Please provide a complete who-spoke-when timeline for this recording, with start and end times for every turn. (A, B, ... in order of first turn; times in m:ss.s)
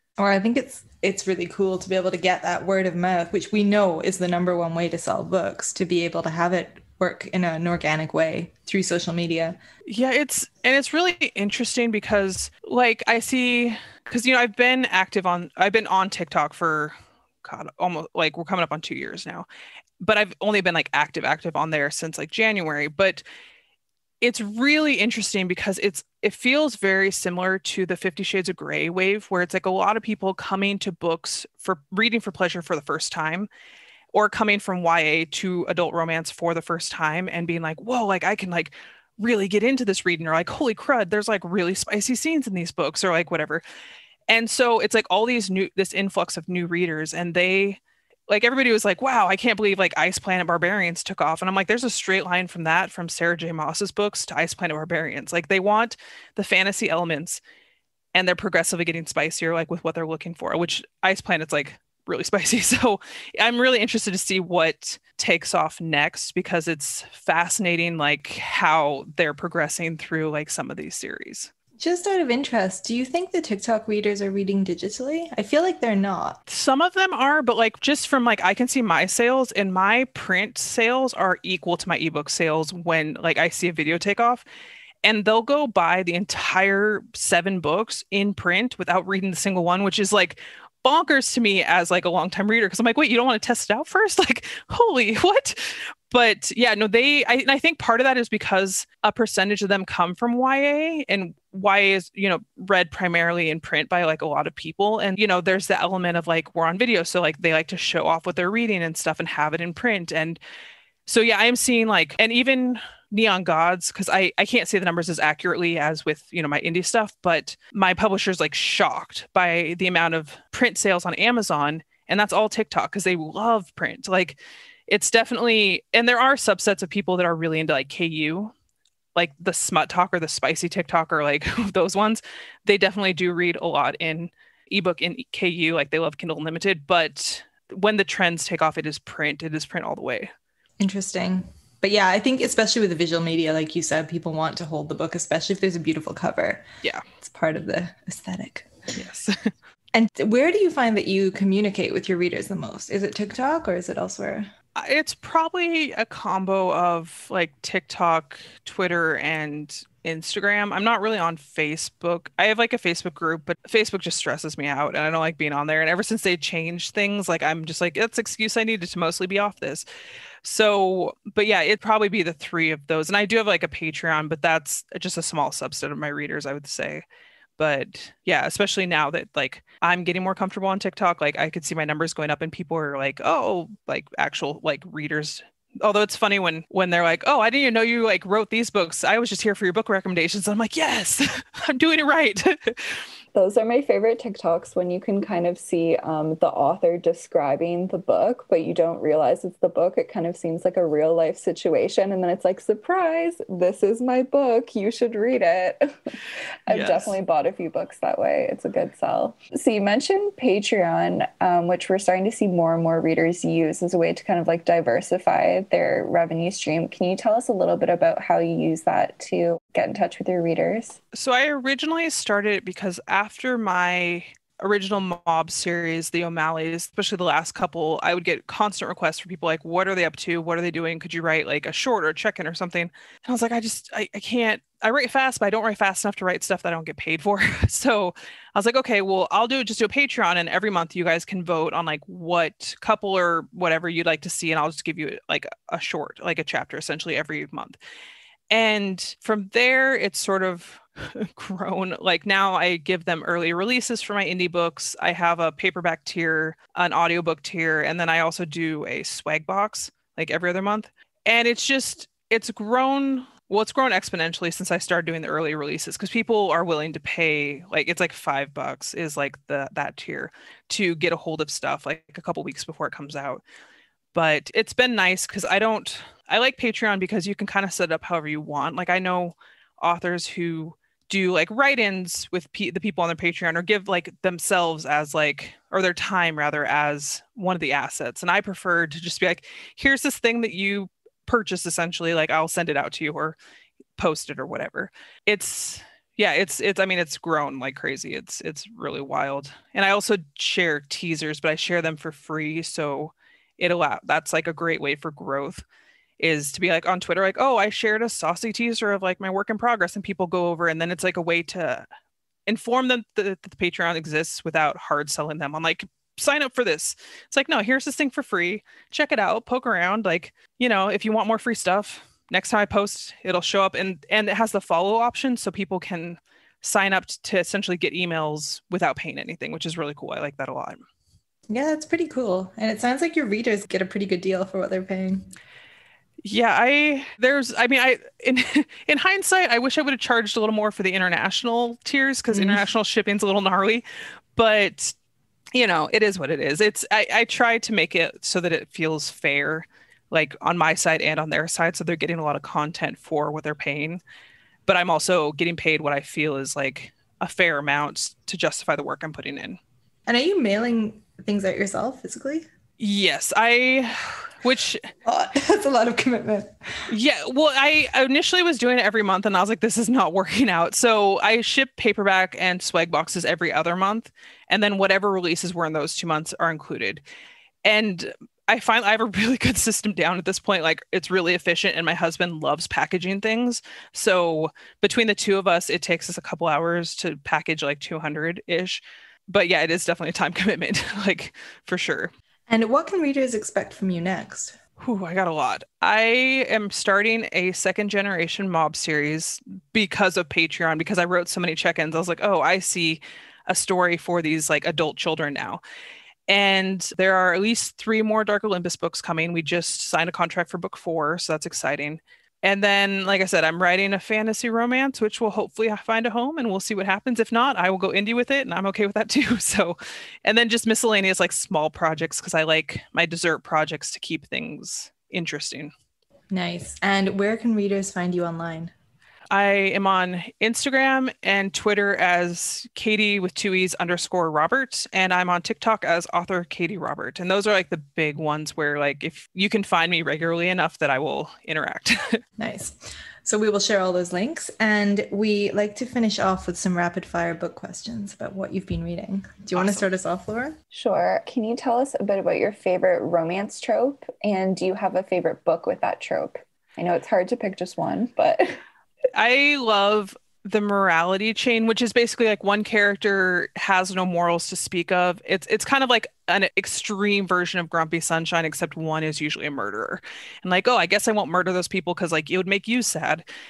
0:00.2-0:09.6 A
0:09.9-0:19.4 B
0:20.0-0:23.2 B
0:24.2-0:33.5 B
0:34.1-0:43.6 B
0:44.3-0:57.4 B
0:58.1-1:11.5 B
1:11.8-1:16.4 A
1:16.5-1:24.4 B
1:25.0-1:50.4 B
1:51.1-2:08.5 B
2:09.1-2:20.3 B
2:20.8-2:26.6 A
2:27.2-2:28.7 A
2:29.0-2:29.5 B
2:29.9-2:34.5 A
2:34.8-2:49.8 B
2:50.4-2:57.0 B
2:57.6-3:13.0 B
3:13.3-3:25.9 C
3:26.7-3:41.0 C
3:26.7-3:27.2 B
3:41.1-4:07.8 B
4:08.5-4:33.4 B
4:34.1-4:53.4 B
4:54.0-5:05.6 B
5:06.2-5:11.8 B
5:12.5-5:30.8 B
5:31.5-5:35.3 A
5:36.2-5:43.8 B
5:42.3-5:42.6 A
5:44.4-5:44.9 B
5:45.5-5:54.0 B
5:54.7-5:59.6 B
6:00.1-6:02.5 A
6:02.8-6:04.8 B
6:05.0-6:06.9 A
6:06.9-6:17.0 B
6:17.6-6:32.1 B
6:32.5-6:34.6 A
6:34.8-6:45.6 B
6:46.3-7:05.7 B
7:06.3-7:08.7 A
7:09.3-7:22.2 B
7:22.4-7:30.6 A
7:29.5-7:29.8 B
7:30.7-7:38.6 C
7:39.1-7:53.2 B